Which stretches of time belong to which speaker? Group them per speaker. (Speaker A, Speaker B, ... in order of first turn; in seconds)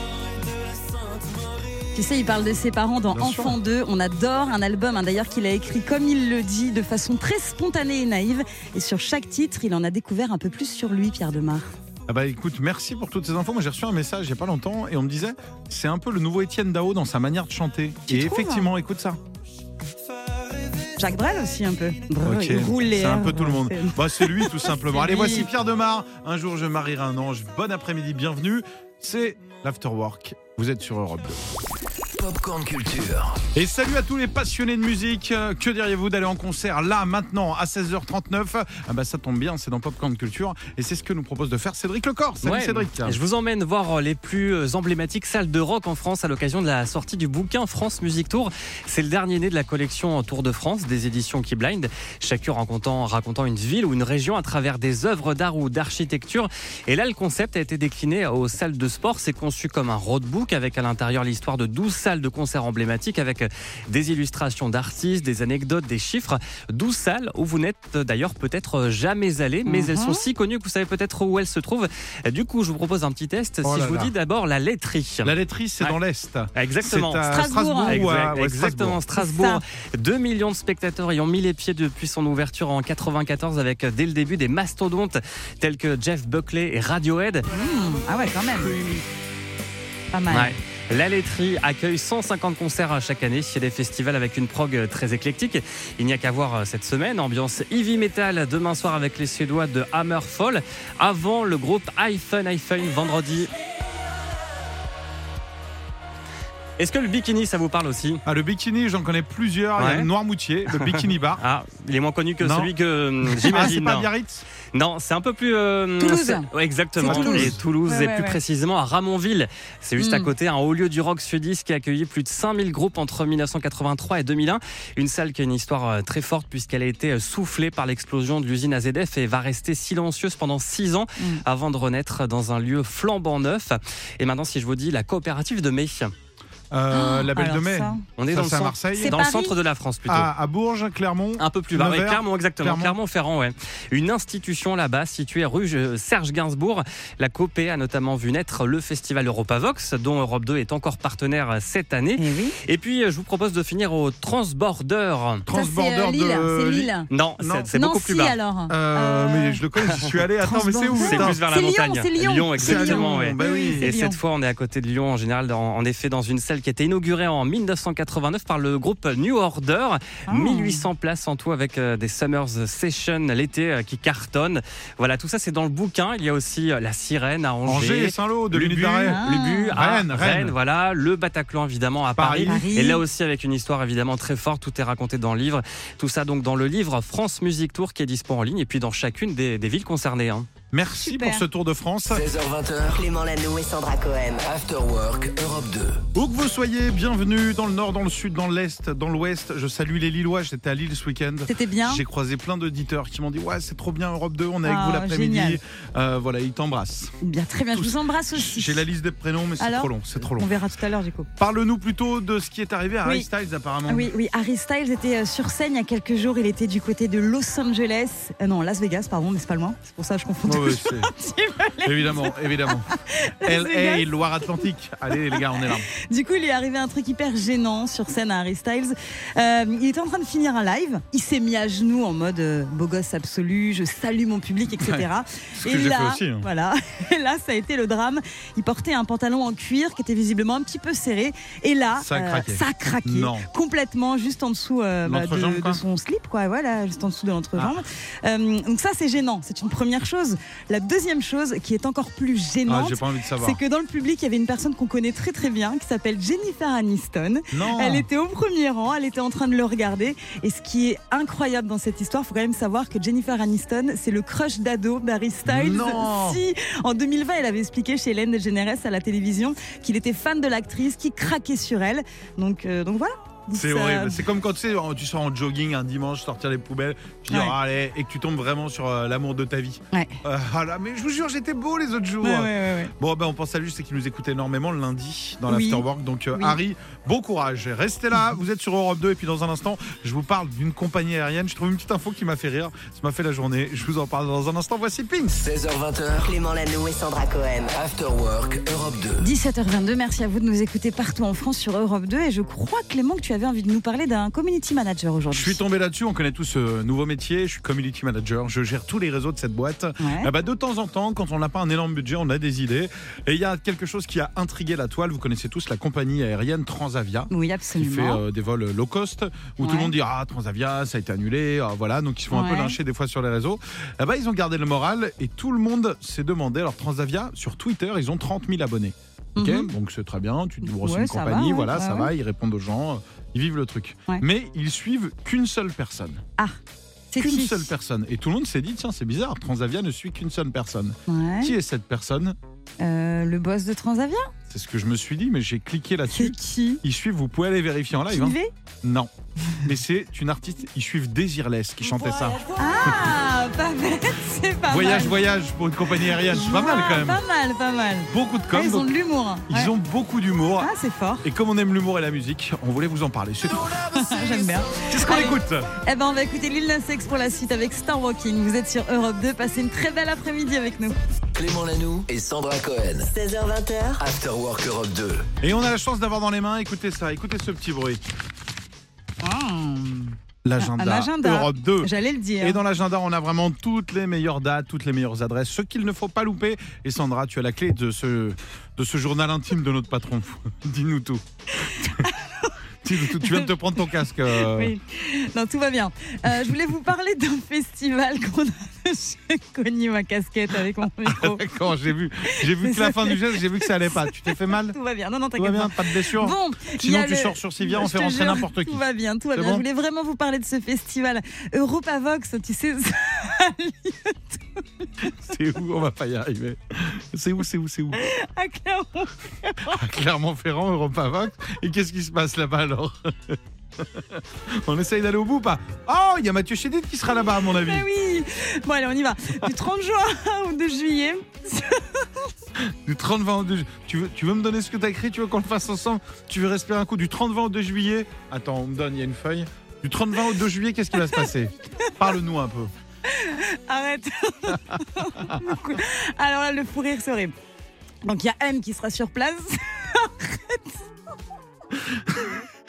Speaker A: 1.9-11.7, 18.1-18.7, 21.0-25.5, 69.7-70.2, 77.3-78.0, 79.2-79.6, 87.5-88.8, 90.1-90.6, 116.0-118.4, 120.0-120.3, 136.9-138.0, 139.0-139.6, 152.2-152.6, 155.5-157.1, 157.7-159.6, 160.4-164.2, 170.3-170.9, 179.1-179.7, 182.4-183.0, 191.0-191.4, 201.5-202.0, 204.6-205.6, 207.2-208.9, 209.6-211.3, 213.9-224.1, 225.1-274.2, 277.3-277.6, 279.9-280.2, 282.2-282.9, 285.5-286.6, 299.2-305.6, 310.0-310.3, 317.3-318.2, 319.6-319.9, 322.3-322.8, 329.4-329.7, 330.6-332.1, 337.1-337.7, 341.1-341.6, 342.8-344.3, 346.1-346.8, 348.1-348.5, 352.4-355.2, 356.1-359.7, 360.6-361.2, 363.9-371.0, 379.2-382.6, 391.6-393.5, 394.3-401.5, 402.2-415.1, 417.9-419.8, 427.5-432.2, 443.1-447.3, 448.0-450.8
Speaker B: 3.1-3.6, 12.1-19.2, 22.2-31.4, 33.5-43.2, 73.6-74.1, 75.2-79.0, 108.3-111.4, 112.4-112.7, 113.3-114.5, 117.0-117.6, 136.7-139.2, 140.1-143.0, 155.4-157.8, 158.7-161.4, 162.6-163.9, 177.7-180.6, 182.2-182.6, 190.7-192.3, 196.2-207.2, 207.7-210.5, 211.4-214.1, 220.4-221.1, 221.8-222.9, 223.4-225.9, 234.8-235.1, 235.6-236.5, 242.0-243.5, 245.1-245.8, 247.6-247.8, 252.7-253.6, 257.5-258.1, 265.4-266.4, 273.5-295.4, 305.3-336.2, 337.2-342.4, 344.5-353.0, 354.7-357.2, 358.1-358.9, 359.5-360.7, 361.2-363.7, 364.9-365.7, 375.4-378.0, 380.4-392.1, 392.8-394.7, 401.0-404.8, 405.4-409.6, 415.2-418.0, 419.6-427.9, 432.6-442.7, 445.2-445.5, 451.8-452.3
Speaker C: 32.2-33.4, 192.1-193.1, 194.4-196.0, 295.3-296.3, 297.7-299.3, 371.4-373.1, 374.0-375.3
Speaker D: 42.4-76.0, 76.5-77.3, 77.9-87.5, 90.3-103.5, 106.8-108.2, 109.8-110.1, 110.7-114.1, 114.7-136.1, 138.2-140.3, 141.4-155.4, 157.1-158.4, 161.0-190.5
Speaker E: 192.9-194.5, 296.2-297.7, 373.0-374.0